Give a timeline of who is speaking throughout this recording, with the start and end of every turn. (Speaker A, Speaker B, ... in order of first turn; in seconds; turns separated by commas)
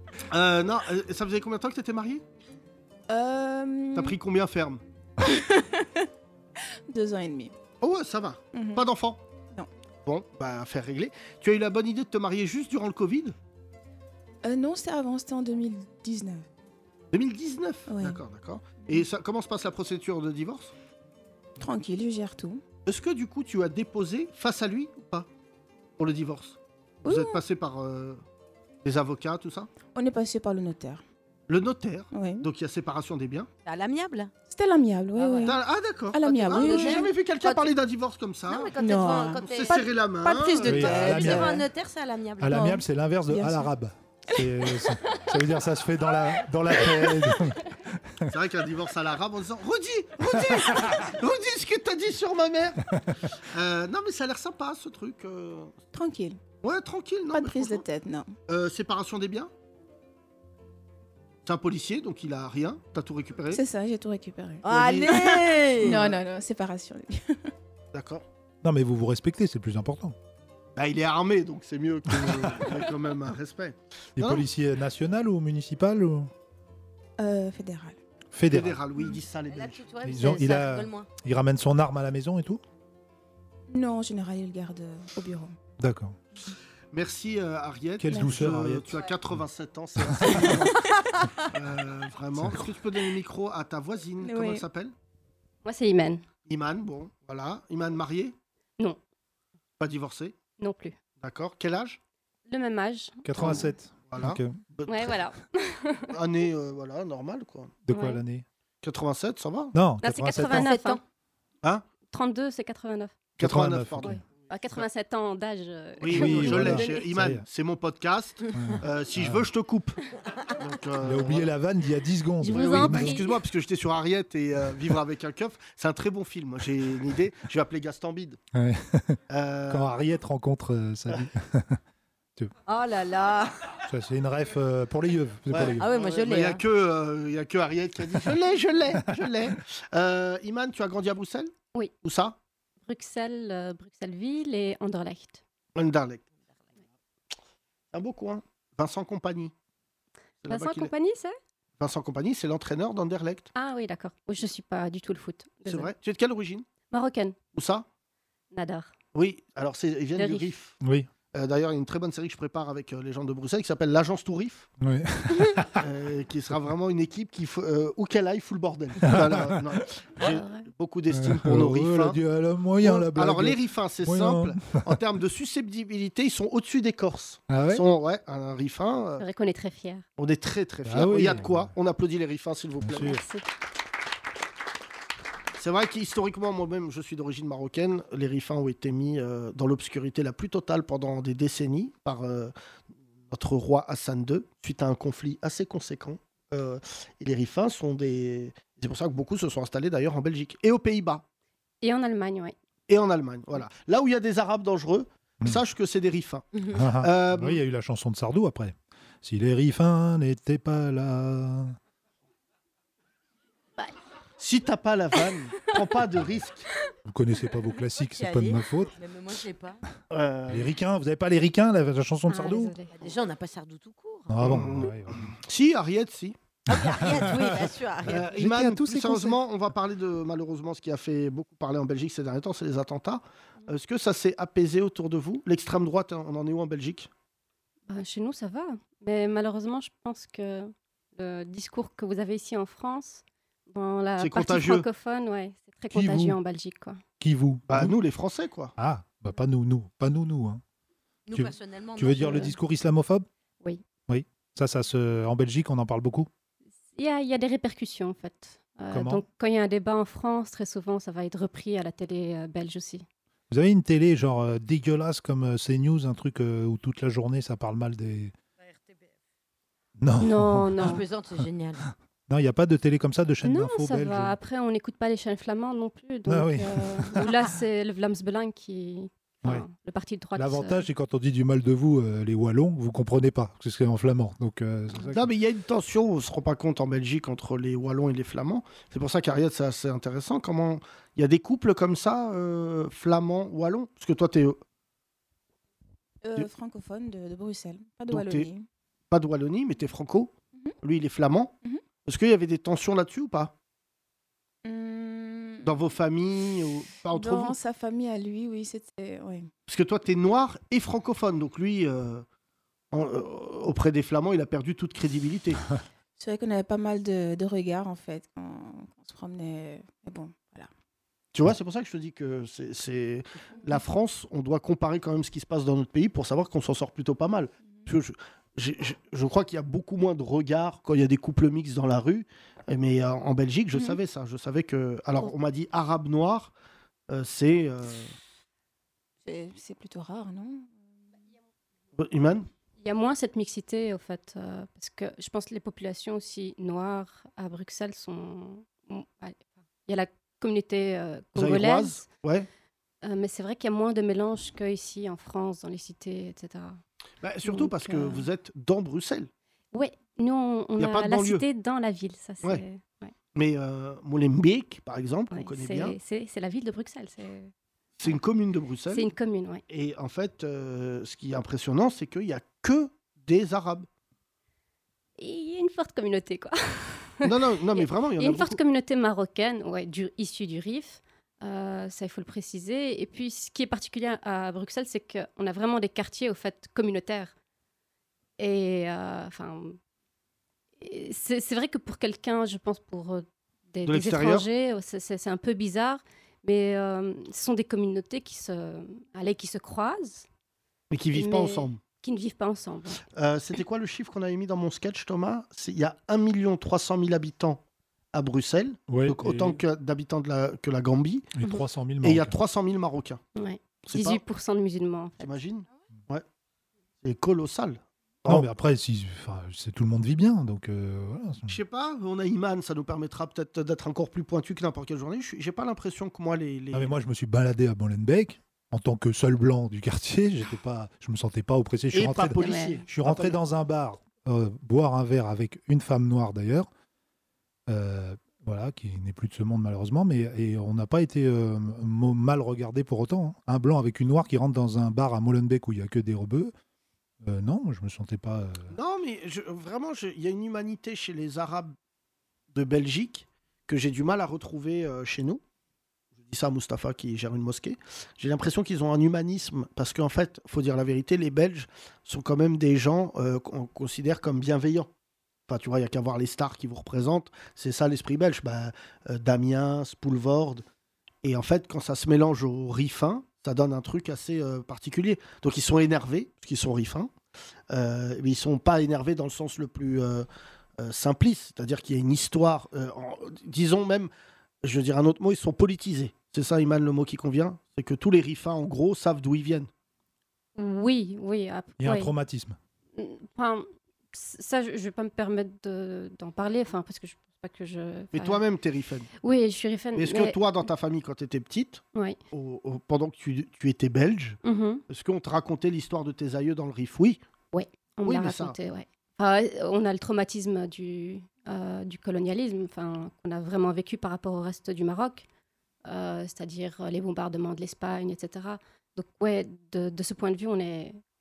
Speaker A: 0.3-2.2, Speaker B: 3.1-4.2, Speaker A: 3.9-4.8, Speaker B: 5.2-6.0, Speaker B: 6.9-7.5, Speaker A: 7.8-9.2, Speaker B: 8.5-8.8, Speaker A: 10.1-13.3, Speaker B: 14.4-16.4, Speaker A: 17.1-20.7, Speaker B: 17.9-18.2, Speaker B: 18.8-19.1, Speaker B: 21.6-22.6, Speaker A: 22.9-25.3, Speaker A: 26.0-28.2, Speaker B: 27.0-27.4, Speaker A: 28.8-29.7, Speaker B: 29.9-31.0, Speaker A: 31.5-33.5, Speaker B: 32.1-32.5, Speaker C: 33.6-34.3, Speaker B: 34.5-35.6, Speaker C: 35.1-35.5, Speaker A: 35.4-38.7, Speaker B: 36.1-37.1, Speaker C: 36.2-37.7, Speaker C: 38.5-42.7, Speaker B: 38.7-41.6, Speaker A: 39.3-41.5, Speaker D: 40.6-41.6, Speaker D: 42.4-48.3, Speaker B: 42.5-43.7, Speaker A: 48.3-52.8, Speaker D: 50.5-50.9, Speaker A: 53.4-55.7, Speaker B: 55.9-56.4, Speaker A: 56.6-57.8, Speaker B: 57.3-58.3, Speaker A: 58.5-59.5, Speaker A: 61.5-63.6, Speaker B: 63.5-67.4, Speaker C: 64.6-66.1, Speaker A: 64.7-65.2, Speaker A: 65.8-66.2, Speaker A: 67.9-68.2, Speaker D: 68.6-70.1, Speaker A: 70.8-74.5, Speaker D: 72.2-72.7, Speaker D: 74.2-76.3, Speaker B: 77.2-78.0, Speaker D: 78.3-78.8, Speaker A: 78.5-79.8, Speaker C: 79.5-81.1, Speaker D: 80.0-82.6, Speaker B: 83.7-85.5, Speaker D: 85.8-86.2, Speaker A: 86.9-90.8, Speaker D: 88.0-89.3, Speaker B: 88.1-88.5, Speaker D: 90.1-90.5, Speaker A: 91.4-94.9, Speaker D: 92.3-92.8, Speaker B: 94.2-94.7, Speaker E: 95.6-96.2, Speaker A: 96.5-98.3, Speaker A: 99.8-100.3, Speaker E: 100.6-100.9, Speaker A: 101.2-102.0, Speaker E: 102.5-103.6, Speaker D: 103.2-104.6, Speaker A: 103.3-105.1, Speaker E: 104.9-106.1, Speaker A: 106.1-107.7, Speaker D: 107.8-108.4, Speaker E: 107.9-108.2, Speaker A: 108.8-109.7, Speaker D: 109.7-110.7, Speaker E: 110.0-111.0, Speaker C: 110.4-111.0, Speaker E: 112.1-113.2, Speaker A: 113.4-114.8, Speaker D: 113.4-114.2, Speaker E: 114.0-117.0, Speaker A: 116.0-120.0, Speaker D: 116.1-117.4, Speaker D: 118.5-119.5, Speaker A: 120.5-121.5, Speaker D: 121.0-123.2, Speaker C: 122.4-123.3, Speaker A: 122.5-128.4, Speaker D: 128.5-131.8, Speaker A: 129.3-130.0, Speaker C: 132.7-133.6, Speaker D: 133.9-135.9, Speaker A: 135.5-142.3, Speaker C: 135.6-136.6, Speaker E: 142.8-145.4, Speaker A: 145.7-146.2, Speaker A: 147.9-149.5, Speaker A: 150.4-150.9, Speaker E: 150.4-151.3, Speaker A: 151.8-153.5, Speaker E: 153.5-155.9, Speaker A: 155.6-156.7, Speaker E: 156.9-157.4, Speaker A: 157.5-157.8, Speaker E: 158.5-158.9, Speaker A: 159.1-160.8, Speaker E: 160.2-160.5, Speaker D: 160.8-161.1, Speaker A: 161.3-164.7, Speaker D: 164.8-165.8, Speaker A: 165.8-172.2, Speaker D: 169.0-169.8, Speaker E: 170.2-170.7, Speaker D: 171.1-174.9, Speaker A: 172.8-179.2, Speaker D: 177.5-177.8, Speaker E: 179.2-180.0, Speaker A: 180.2-183.2, Speaker D: 180.8-181.7, Speaker D: 182.8-183.2, Speaker E: 183.0-183.4, Speaker A: 185.6-192.5, Speaker A: 193.3-201.2, Speaker E: 201.8-202.5, Speaker A: 202.9-206.5, Speaker D: 206.7-211.8, Speaker A: 207.0-207.6, Speaker A: 214.4-216.7, Speaker D: 217.0-218.9, Speaker C: 218.0-219.8, Speaker A: 220.1-220.7, Speaker D: 220.5-222.8, Speaker E: 222.3-222.9, Speaker C: 222.9-224.4, Speaker D: 224.3-225.3, Speaker A: 224.4-226.4, Speaker C: 226.7-228.3, Speaker D: 226.7-229.4, Speaker A: 228.1-237.1, Speaker E: 237.9-247.0, Speaker A: 244.2-244.8, Speaker D: 245.9-246.4, Speaker D: 247.2-247.9, Speaker A: 247.7-248.7, Speaker D: 248.8-250.6, Speaker C: 251.3-252.5, Speaker D: 251.3-253.3, Speaker D: 254.1-256.3, Speaker E: 256.9-263.0, Speaker D: 258.9-259.2, Speaker D: 263.5-268.3, Speaker D: 270.0-271.0, Speaker E: 270.2-271.0, Speaker C: 270.8-271.8, Speaker D: 272.3-274.4, Speaker E: 273.4-280.8, Speaker D: 276.3-277.3, Speaker D: 280.4-285.3, Speaker A: 285.0-294.6, Speaker B: 296.2-298.6, Speaker A: 298.1-298.5, Speaker A: 299.1-301.5, Speaker A: 302.0-303.5, Speaker B: 304.6-305.8, Speaker A: 305.6-307.6, Speaker B: 307.1-309.5, Speaker A: 309.7-312.2, Speaker A: 312.9-315.6, Speaker B: 316.2-320.7, Speaker A: 321.3-336.5, Speaker A: 337.1-338.1, Speaker B: 339.2-340.8, Speaker A: 342.0-342.5, Speaker E: 342.8-352.1, Speaker A: 351.3-352.5, Speaker E: 353.0-356.8, Speaker A: 357.2-359.3, Speaker E: 357.4-358.2, Speaker E: 359.7-363.1, Speaker A: 360.8-361.4, Speaker A: 363.3-366.0, Speaker E: 365.3-367.5, Speaker A: 368.0-369.1, Speaker E: 368.9-369.6, Speaker A: 369.7-373.9, Speaker E: 375.2-387.3, Speaker A: 377.2-378.6, Speaker E: 388.4-389.8, Speaker E: 390.8-400.2, Speaker A: 393.8-394.5, Speaker A: 400.9-401.8, Speaker E: 401.1-403.0, Speaker A: 403.1-407.6, Speaker A: 408.1-411.3, Speaker D: 408.9-409.6, Speaker D: 411.3-412.4, Speaker A: 412.0-413.2, Speaker E: 413.3-415.4, Speaker A: 413.8-414.2, Speaker A: 415.2-416.2, Speaker A: 417.0-418.5, Speaker D: 418.2-421.6, Speaker A: 421.5-426.9, Speaker D: 426.7-436.7, Speaker A: 431.9-433.4, Speaker E: 432.4-432.8, Speaker D: 437.7-446.5, Speaker D: 447.2-448.7, Speaker A: 448.7-451.7, Speaker A: 452.5-455.4, Speaker A: 456.2-464.9, Speaker A: 465.5-470.6, Speaker A: 471.2-477.1, Speaker A: 477.7-480.3, Speaker A: 480.8-484.1, Speaker A: 484.6-489.7, Speaker E: 490.6-492.1, Speaker D: 491.8-492.6, Speaker E: 492.9-498.4, Speaker A: 498.1-499.1, Speaker E: 499.2-500.4, Speaker A: 499.9-501.8, Speaker A: 502.3-504.4, Speaker E: 504.4-504.8, Speaker A: 504.9-507.2, Speaker E: 507.5-515.2, Speaker A: 508.0-508.6, Speaker E: 515.8-521.0